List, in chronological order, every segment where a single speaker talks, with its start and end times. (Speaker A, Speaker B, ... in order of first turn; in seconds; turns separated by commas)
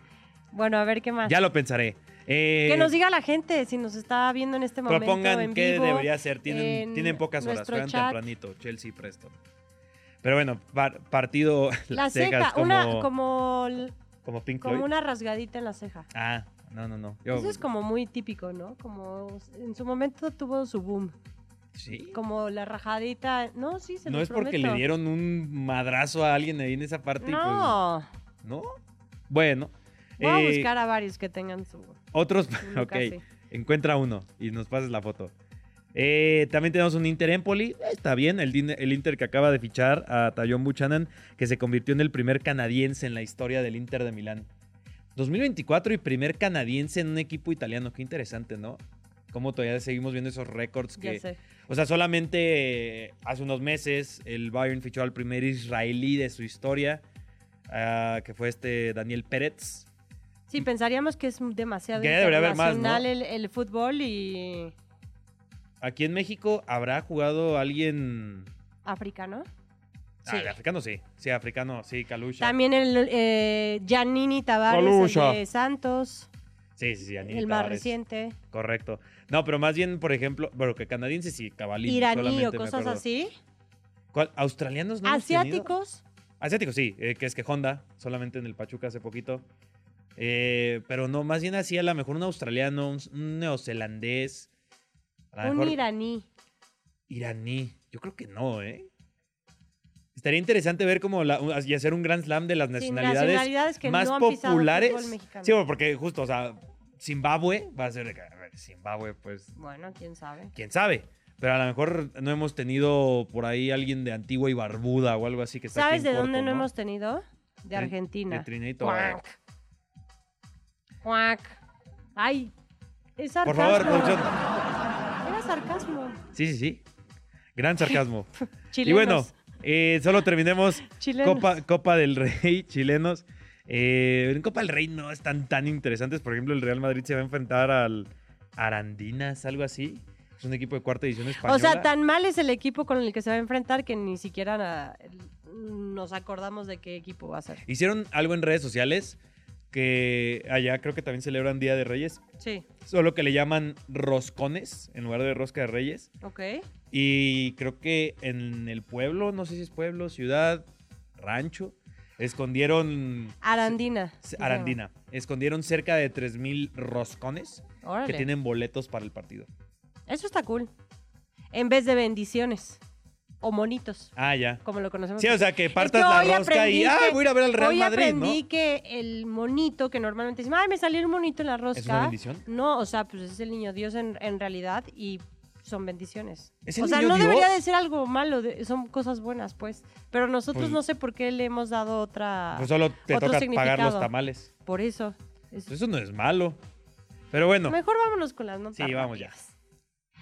Speaker A: 0.5-1.4, Speaker B: 1.3-2.9, Speaker A: 2.7-8.2, Speaker B: 4.9-9.4, Speaker B: 10.2-13.1, Speaker A: 11.9-13.9, Speaker B: 14.2-14.9, Speaker A: 14.6-16.1, Speaker B: 16.1-17.6, Speaker A: 17.3-21.1, Speaker B: 21.8-22.2, Speaker A: 22.1-24.8, Speaker B: 24.1-27.8, Speaker A: 27.2-28.1, Speaker B: 28.4-28.7, Speaker B: 29.3-30.7, Speaker A: 30.2-32.0, Speaker B: 32.1-35.3, Speaker A: 32.6-33.2, Speaker B: 35.9-44.5, Speaker B: 45.2-48.8, Speaker B: 49.3-57.0, Speaker A: 51.0-51.4, Speaker B: 57.7-59.9, Speaker A: 60.5-64.7, Speaker B: 62.0-63.1, Speaker B: 65.8-68.5, Speaker A: 68.8-69.5, Speaker B: 70.2-72.6, Speaker A: 70.3-70.5, Speaker A: 72.4-76.3, Speaker B: 74.7-75.4, Speaker B: 76.8-77.9, Speaker A: 77.3-78.4, Speaker B: 78.5-83.0, Speaker A: 81.8-83.3, Speaker B: 84.1-85.7, Speaker A: 85.0-86.0, Speaker B: 86.4-89.4, Speaker B: 90.2-94.5, Speaker B: 95.3-95.8, Speaker A: 95.4-96.3, Speaker B: 97.1-98.9, Speaker B: 100.2-109.5, Speaker A: 102.8-105.5, Speaker A: 109.6-110.5, Speaker B: 110.5-116.7, Speaker A: 115.7-119.3, Speaker B: 117.8-119.2, Speaker A: 121.0-121.6, Speaker A: 122.2-122.5, Speaker A: 123.2-124.3, Speaker B: 123.5-124.4, Speaker A: 125.2-126.2, Speaker B: 126.3-126.8, Speaker B: 127.6-141.9, Speaker A: 128.7-129.3, Speaker A: 130.9-131.5, Speaker A: 141.4-147.6, Speaker B: 147.7-149.2, Speaker B: 149.7-152.2, Speaker A: 152.4-152.7, Speaker B: 152.8-156.1, Speaker A: 156.2-156.6, Speaker B: 156.9-160.7, Speaker B: 161.2-169.5, Speaker A: 163.4-164.8, Speaker A: 167.8-168.3, Speaker A: 170.1-170.7, Speaker A: 171.5-172.8, Speaker A: 173.4-174.1, Speaker B: 174.2-174.6, Speaker A: 174.6-194.1, Speaker B: 175.2-178.4, Speaker B: 181.8-182.4, Speaker B: 186.7-187.5, Speaker B: 190.5-190.8, Speaker B: 192.6-194.5, Speaker A: 194.7-195.7, Speaker B: 195.7-196.6, Speaker B: 197.3-197.8, Speaker A: 197.7-199.5, Speaker B: 198.8-199.3